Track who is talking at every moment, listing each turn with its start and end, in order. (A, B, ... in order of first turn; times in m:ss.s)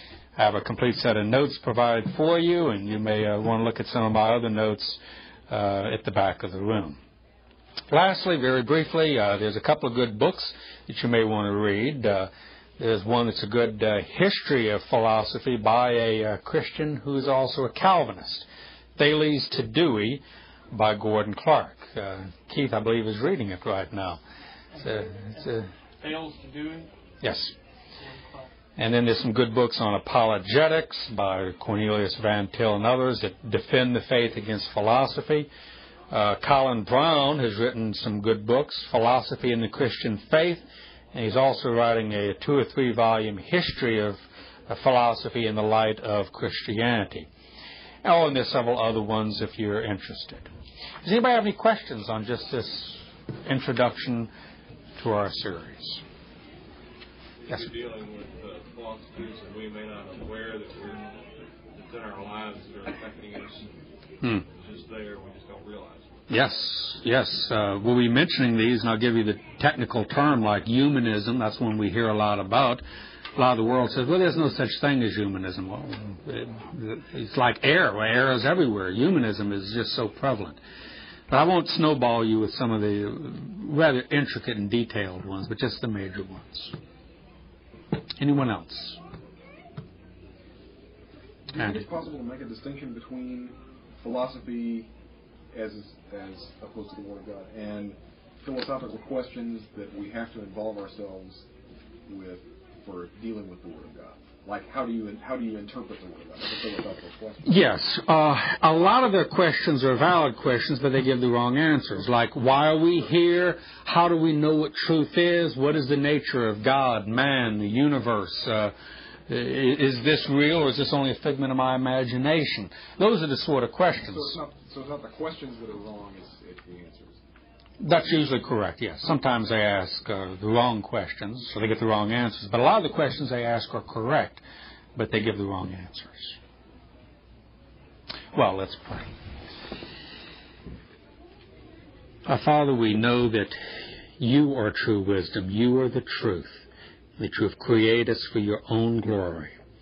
0:00.4-0:07.0 A
0:07.9-0:18.5 A
0:19.0-0:24.2 A
0:24.8-0:25.7 A
0:26.0-0:26.9 B
0:27.2-0:27.5 A
0:28.8-0:35.5 A
0:36.1-0:47.3 A
0:48.0-0:50.5 A
0:51.0-0:54.3 A
0:55.0-0:56.0 A
0:57.4-1:01.2 B
1:01.7-1:03.7 B
1:04.4-1:06.3 B
1:06.3-1:12.8 A
1:13.4-1:20.6 A
1:21.3-1:26.8 A
1:28.2-1:29.0 A
1:31.5-1:34.9 C
1:35.5-1:41.5 C
1:42.1-1:47.4 C
1:47.4-1:58.7 A
1:59.3-2:04.4 A
2:04.1-2:07.2 C
2:07.8-2:14.4 A
2:15.0-2:16.4 A
2:18.3-2:19.1 A
2:22.3-2:23.6 A
2:24.2-2:26.7 A
2:27.2-2:29.5 A